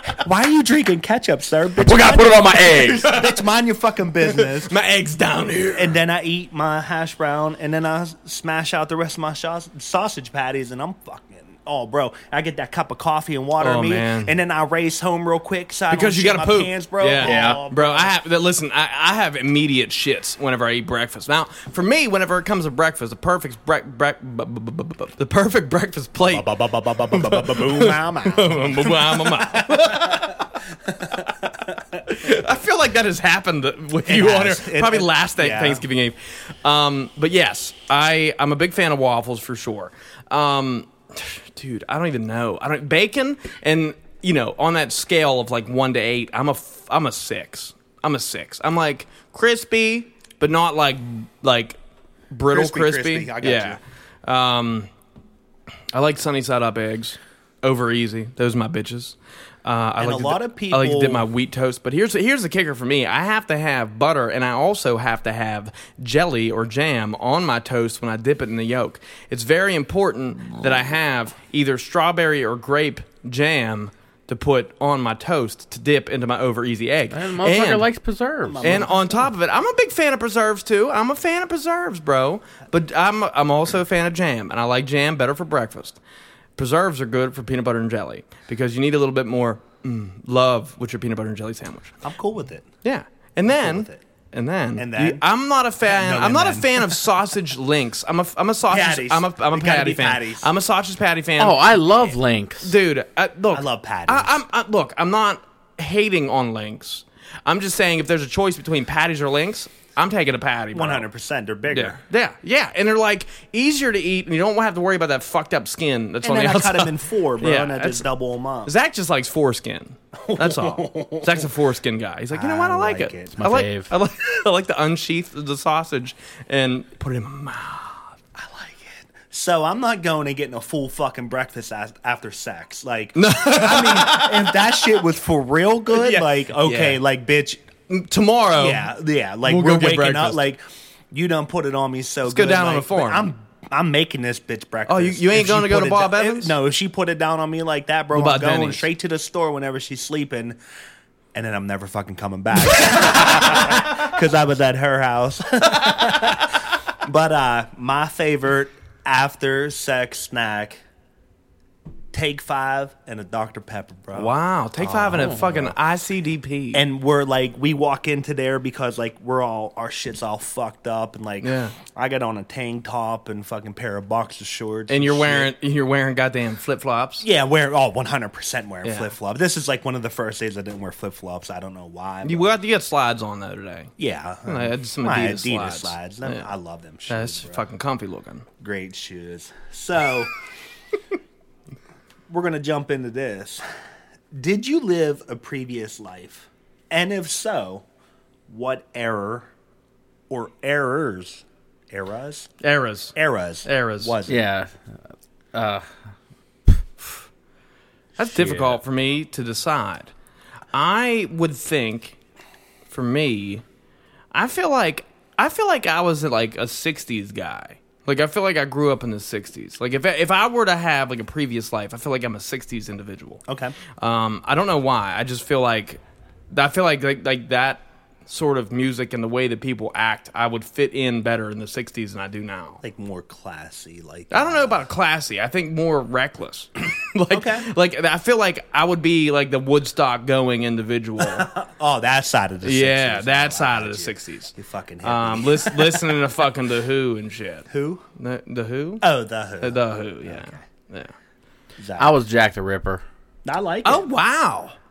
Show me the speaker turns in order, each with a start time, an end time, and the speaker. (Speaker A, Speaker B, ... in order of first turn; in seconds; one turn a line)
Speaker A: 0.2-4.7
Speaker B: 1.8-3.1
Speaker C: 3.0-3.4
Speaker C: 4.2-6.0
Speaker A: 5.7-18.1
Speaker C: 13.6-14.3
Speaker C: 15.9-26.4
Speaker B: 17.2-17.6
Speaker A: 26.3-31.6
Speaker C: 27.1-30.5
Speaker C: 32.0-51.8
Speaker A: 34.0-35.8
Speaker C: 52.3-54.9
Speaker A: 52.5-53.8
Speaker C: 55.9-77.9
Speaker A: 60.0-61.2
Speaker B: 77.1-78.8
Speaker A: 78.4-79.3
Speaker C: 78.6-86.0
Speaker C: 86.6-91.9
Speaker A: 92.0-92.7
Speaker C: 92.8-101.6
Speaker A: 93.5-94.0
Speaker A: 94.8-95.2
Speaker A: 95.8-97.0
Speaker A: 98.7-100.5
Speaker B: 101.4-102.7
Speaker C: 102.6-111.0
Speaker A: 103.5-104.4
Speaker A: 110.7-112.0
Speaker C: 111.7-118.0
Speaker A: 116.2-118.7
Speaker C: 118.6-128.1
Speaker A: 120.2-121.5
Speaker A: 122.3-123.4
Speaker B: 123.3-123.9
Speaker A: 128.3-137.6
Speaker C: 133.1-134.6
Speaker C: 135.9-137.0
Speaker C: 137.9-138.9
Speaker A: 138.6-150.6
Speaker C: 139.4-140.4
Speaker C: 142.3-143.3
Speaker C: 144.9-146.5
Speaker C: 148.1-148.9
Speaker A: 151.3-160.8
Speaker A: 162.1-164.3
Speaker C: 164.1-166.8
Speaker B: 164.8-165.7
Speaker A: 166.7-175.5
Speaker C: 171.4-171.8
Speaker C: 174.9-177.2
Speaker A: 177.2-182.5
Speaker C: 178.8-179.1
Speaker C: 182.2-183.9
Speaker A: 184.0-187.6
Speaker C: 184.4-186.5
Speaker C: 187.1-188.4
Speaker A: 188.6-190.3
Speaker A: 192.3-193.6
Speaker A: 194.3-197.8
Speaker A: 198.5-199.5
Speaker A: 200.3-202.5
Speaker C: 202.6-203.1
Speaker A: 203.1-204.4
Speaker C: 203.6-204.1
Speaker B: 204.2-204.8
Speaker B: 205.5-205.9
Speaker C: 208.2-210.1
Speaker B: 208.2-208.8
Speaker C: 210.7-212.2
Speaker C: 212.9-213.6
Speaker C: 214.3-223.4
Speaker A: 223.5-223.8
Speaker C: 224.0-232.8
Speaker A: 232.8-234.8
Speaker C: 234.3-241.5
Speaker A: 237.3-237.7
Speaker A: 241.2-246.2
Speaker C: 242.6-249.0
Speaker A: 247.7-248.0
Speaker A: 249.0-250.5
Speaker C: 249.6-251.1
Speaker A: 251.8-252.2
Speaker B: 252.0-253.0
Speaker A: 253.4-254.1
Speaker C: 253.8-254.8